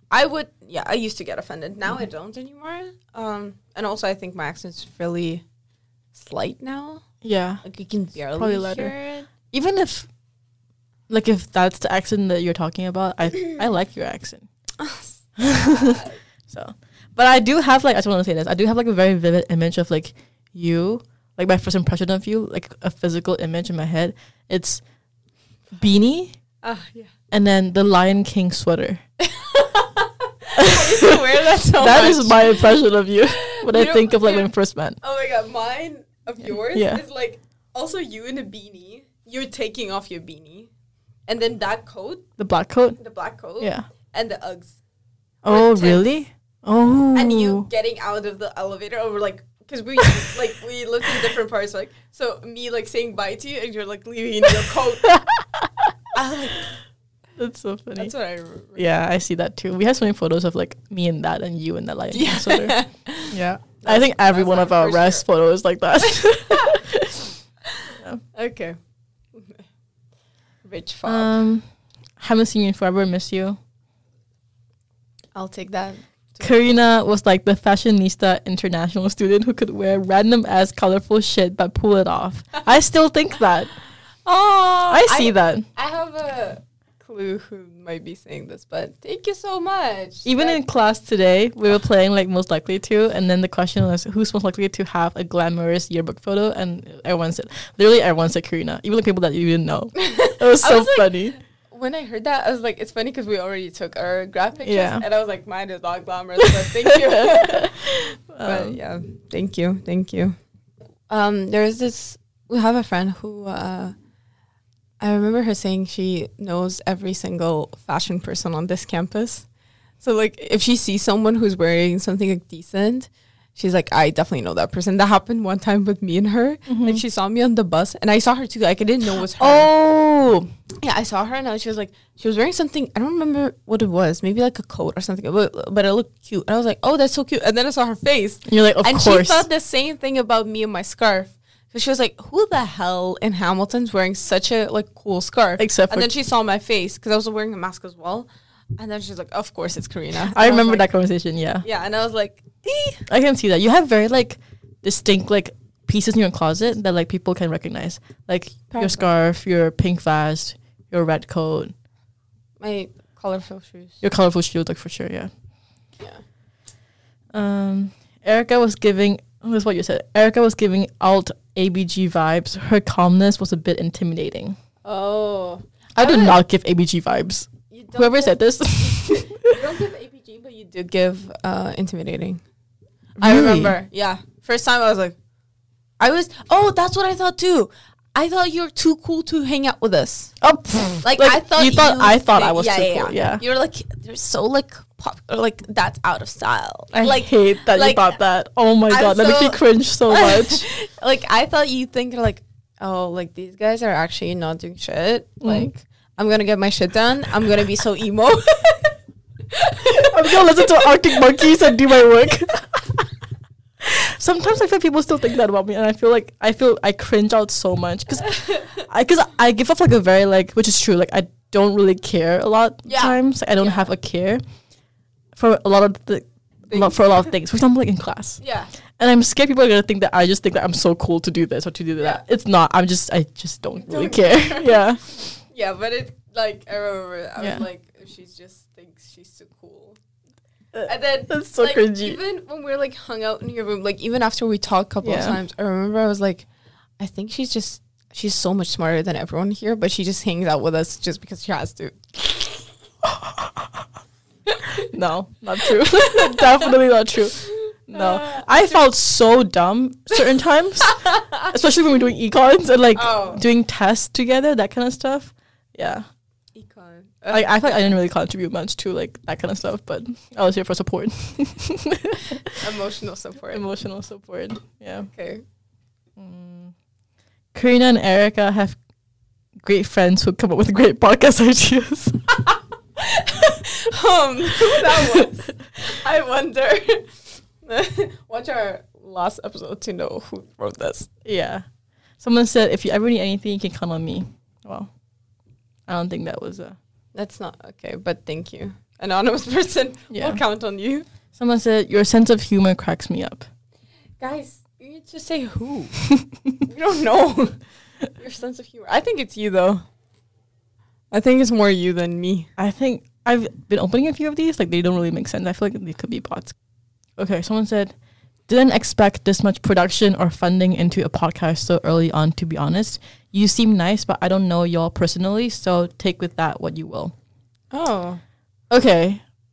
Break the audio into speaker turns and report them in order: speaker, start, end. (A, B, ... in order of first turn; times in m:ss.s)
0:00.1-0:05.4 A
0:06.1-0:07.0 A
0:07.2-0:07.6 B
0:07.6-0:09.3 A
0:08.3-0:08.9 B
0:09.5-0:10.1 B
0:11.1-0:14.5 B
0:14.8-0:16.2 A
0:15.4-0:24.8 B
0:25.7-0:26.4 B
0:26.6-0:27.1 A
0:27.3-0:29.0 B
0:29.2-0:32.7 A
0:30.6-0:35.0 B
0:33.3-0:40.7 A
0:36.7-0:37.0 B
0:41.3-0:42.2 A
0:42.4-0:43.0 B
0:43.0-0:44.8 A
0:45.4-0:47.7 B
0:45.5-0:46.1 A
0:47.1-0:55.2 A
0:55.1-0:55.9 B
0:56.1-0:56.7 A
0:57.4-0:58.1 B
0:58.0-0:58.8 A
0:58.7-1:02.8 B
1:02.1-1:05.2 A
1:03.3-1:07.3 B
1:06.5-1:06.8 A
1:07.7-1:08.8 A
1:09.3-1:09.6 A
1:10.6-1:11.4 A
1:11.0-1:11.6 B
1:12.2-1:13.6 B
1:15.3-1:16.8 A
1:16.4-1:23.7 B
1:24.2-1:30.6 A
1:24.9-1:25.7 B
1:30.2-1:41.4 B
1:40.0-1:50.4 A
1:44.6-1:45.0 B
1:46.4-1:48.8 B
1:51.1-1:53.9 A
1:55.0-1:59.5 A
2:00.0-2:09.7 A
2:06.7-2:07.0 B
2:09.4-2:10.5 B
2:10.8-2:30.9 A
2:18.4-2:19.5 B
2:25.6-2:26.1 B
2:30.2-2:31.6 B
2:31.6-2:33.0 A
2:33.1-2:41.7 B
2:38.7-2:39.1 A
2:42.6-2:44.0 A
2:44.0-2:45.3 B
2:47.3-2:54.6 B
2:54.8-2:56.4 A
2:56.0-2:59.6 B
2:57.7-3:02.4 A
3:03.2-3:05.2 A
3:03.2-3:03.7 B
3:06.0-3:10.3 A
3:10.4-3:13.4 B
3:11.0-3:18.1 A
3:16.9-3:20.7 B
3:18.9-3:28.9 A
3:25.4-3:25.7 B
3:29.5-3:31.2 A
3:29.9-3:33.1 B
3:33.8-3:44.4 B
3:38.2-3:38.8 A
3:42.8-3:43.9 A
3:45.3-3:48.4 B
3:46.7-3:47.0 A
3:48.4-3:48.7 A
3:49.0-3:55.2 B
3:53.8-4:00.0 A
3:57.4-3:57.6 B
4:00.7-4:02.2 B
4:00.8-4:06.4 A
4:05.0-4:05.4 B
4:07.0-4:12.7 A
4:13.0-4:13.9 B
4:14.5-4:14.9 A
4:14.7-4:26.0 B
4:15.7-4:16.7 A
4:17.4-4:18.8 A
4:20.8-4:21.5 A
4:22.9-4:23.4 A
4:26.6-4:28.0 A
4:27.3-4:32.6 B
4:32.6-4:33.6 A
4:33.5-4:35.1 B
4:35.1-4:35.4 A
4:36.2-4:36.7 B
4:37.5-4:38.8 B
4:39.6-4:42.4 B
4:43.0-4:51.1 A
4:44.6-4:45.2 B
4:51.2-4:51.6 B
4:52.2-4:54.9 B
4:55.9-4:56.8 B
4:57.1-5:01.0 A
5:00.1-5:00.4 B
5:01.3-5:03.5 B
5:04.2-5:06.0 A
5:06.6-5:07.6 A
5:08.1-5:09.8 A
5:11.1-5:12.5 A
5:12.6-5:16.6 B
5:17.2-5:17.9 B
5:18.5-5:27.1 B
5:27.7-5:28.2 A
5:28.7-5:29.2 B